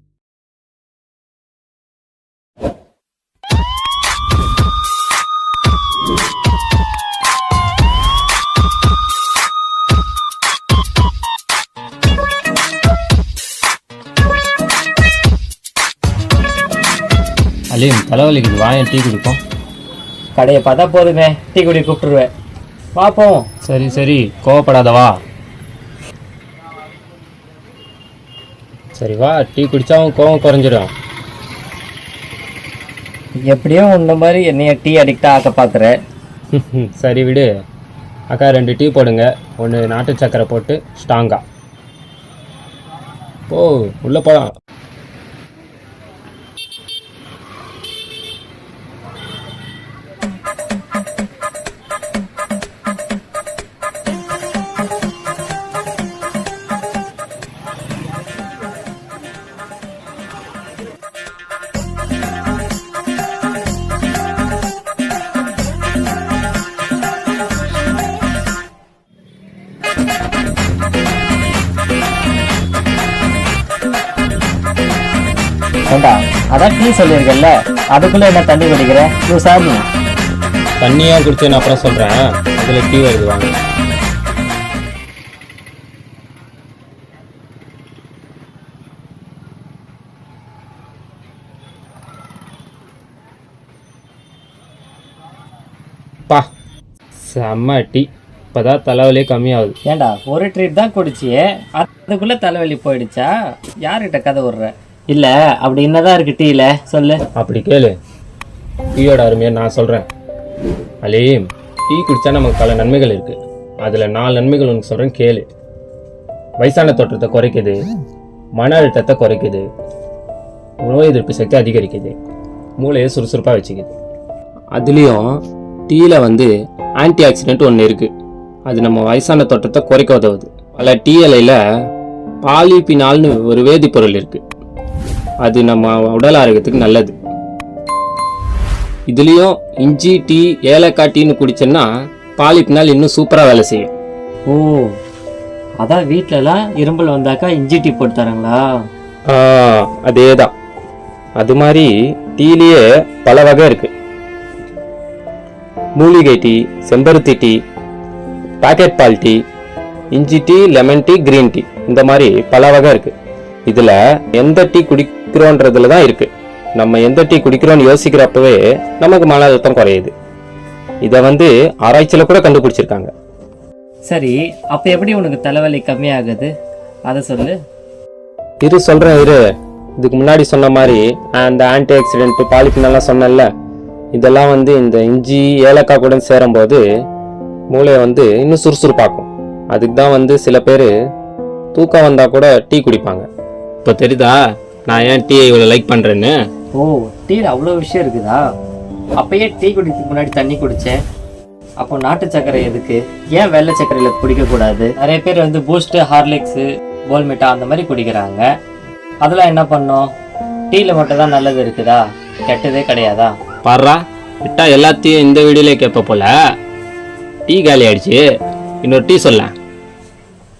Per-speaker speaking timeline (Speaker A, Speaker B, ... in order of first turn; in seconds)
Speaker A: 17.7-19.4, 23.6-25.2, 29.0-30.9, 36.5-37.5, 38.3-41.4, 43.5-44.5, 80.8-83.6, 97.2-99.8, 107.4-108.0, 109.0-110.1, 111.0-115.5, 116.6-117.8, 118.6-119.7, 120.8-122.2, 122.8-123.9, 124.7-128.1, 128.7-131.6, 132.4-134.4, 135.4-137.2, 139.1-143.9, 149.3-150.5, 151.4-153.9, 156.0-157.6, 158.6-159.4, 160.1-163.1, 163.7-170.1, 171.0-173.1, 178.6-179.4, 180.0-183.5, 184.1-186.8, 187.7-190.9, 191.7-193.3, 193.8-196.3, 213.7-216.3, 217.5-218.2, 218.8-219.5
Speaker B: 20.4-22.3, 23.0-23.5, 33.5-36.0, 75.9-79.9, 99.9-103.3, 103.8-107.2, 144.5-144.9, 145.8-148.6, 174.1-176.5, 177.1-177.6, 196.8-198.4, 199.2-201.0, 201.8-208.4, 209.2-210.1, 210.7-213.3